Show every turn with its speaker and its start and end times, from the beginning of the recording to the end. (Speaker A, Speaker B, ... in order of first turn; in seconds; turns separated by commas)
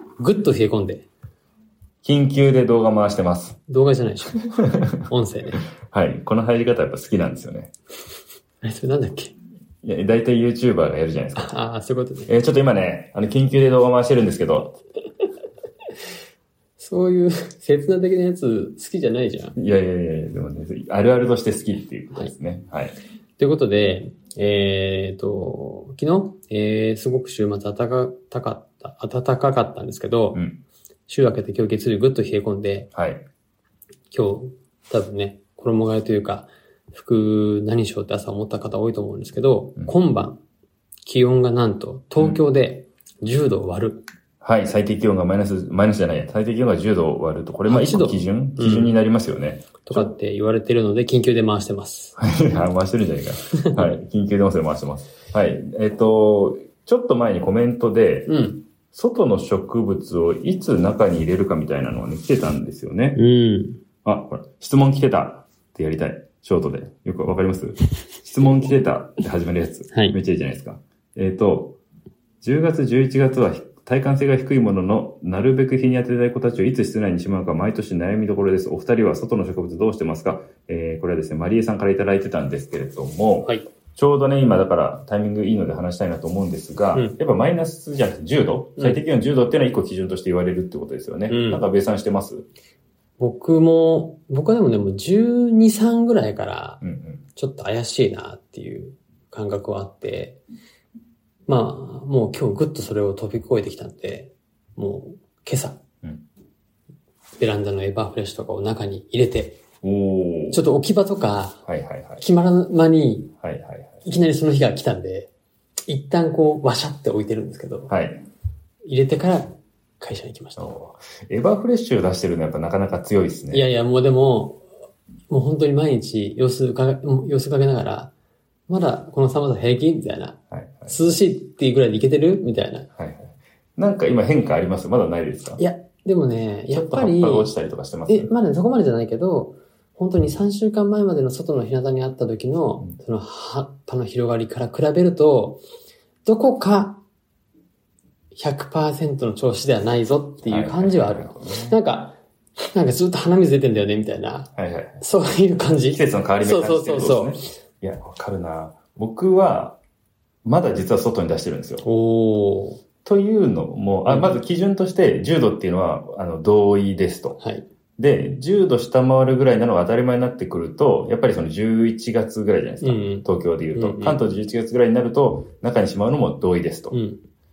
Speaker A: 0.2-1.1, Speaker B: 2.0-3.6, Speaker A: 3.7-5.7, Speaker B: 5.9-7.7, Speaker A: 8.6-9.3, Speaker B: 9.8-11.5, Speaker A: 11.3-12.3, Speaker B: 12.3-14.8, Speaker A: 16.8-19.6, Speaker B: 19.6-22.9, Speaker A: 23.4-30.4, Speaker B: 30.3-30.6, Speaker A: 31.1-32.9, Speaker B: 32.9-33.2, Speaker A: 34.1-40.4, Speaker A: 41.0-44.0, Speaker B: 44.4-50.1, Speaker A: 47.6-49.0, Speaker A: 49.8-52.2, Speaker B: 52.2-58.3, Speaker A: 58.3-58.6, Speaker B: 58.9-63.2, Speaker A: 63.1-63.8, Speaker B: 64.0-71.8, Speaker A: 69.9-70.2, Speaker B: 72.4-92.5, Speaker A: 91.3-91.7, Speaker A: 93.2-96.8, Speaker B: 96.8-97.2, Speaker A: 97.3-100.4, Speaker A: 101.5-105.8, Speaker A: 107.4-109.6, Speaker B: 109.8-110.6, Speaker A: 110.5-111.6, Speaker B: 111.7-112.2, Speaker A: 112.2-113.3, Speaker B: 113.4-114.0, Speaker A: 114.0-115.3, Speaker A: 115.9-117.9, Speaker B: 117.9-118.2, Speaker A: 118.8-120.7, Speaker B: 120.6-123.7, Speaker A: 123.5-124.6, Speaker A: 125.3-128.1, Speaker A: 128.7-132.9, Speaker B: 130.5-131.0, Speaker B: 132.9-135.6, Speaker A: 135.6-137.5, Speaker B: 136.7-138.3, Speaker A: 138.1-145.6, Speaker A: 146.2-147.0, Speaker A: 148.3-152.2, Speaker B: 150.4-151.8, Speaker A: 152.7-157.5, Speaker B: 154.5-155.0, Speaker B: 155.9-159.8, Speaker B: 160.4-161.8, Speaker A: 161.8-162.8, Speaker B: 163.0-167.4, Speaker A: 164.1-164.3, Speaker A: 167.4-167.7, Speaker B: 168.0-177.0, Speaker A: 172.8-174.2, Speaker A: 176.9-177.2